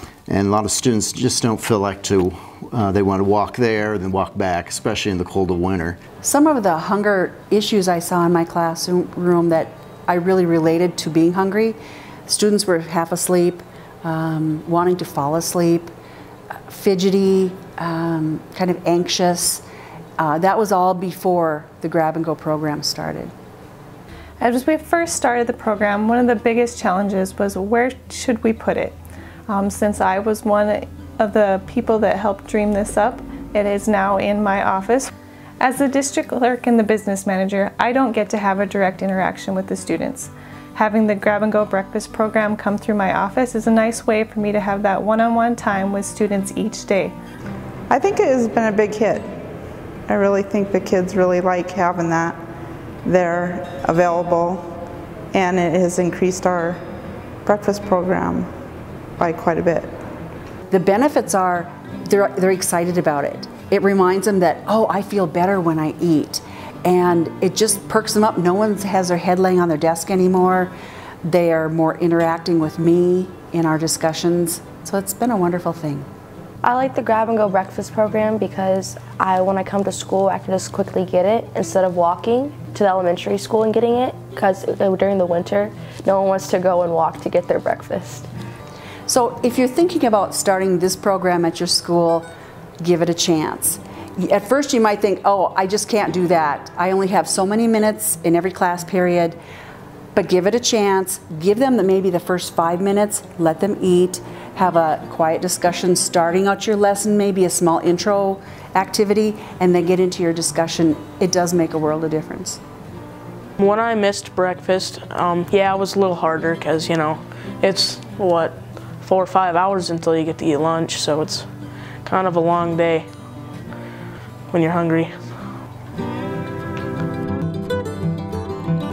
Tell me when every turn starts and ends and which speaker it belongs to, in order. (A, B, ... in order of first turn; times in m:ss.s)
0:00.3-0:06.0 A
0:06.2-0:15.9 B
0:16.6-0:19.6 B
0:20.2-0:23.3 B
0:24.4-0:29.0 C
0:29.5-0:47.2 C
0:47.9-0:49.3 D
0:50.1-0:52.4 D
0:53.0-0:54.7 D
0:55.3-0:56.8 D
0:57.4-0:58.5 D
0:59.2-0:59.9 D
1:00.7-1:10.7 B
1:11.2-1:16.1 B
1:16.6-1:28.3 E
1:29.1-1:32.3 B
1:32.8-1:39.4 B
1:40.1-1:52.6 B
1:53.6-2:01.5 F
2:02.0-2:03.1 F
2:04.5-2:05.4 F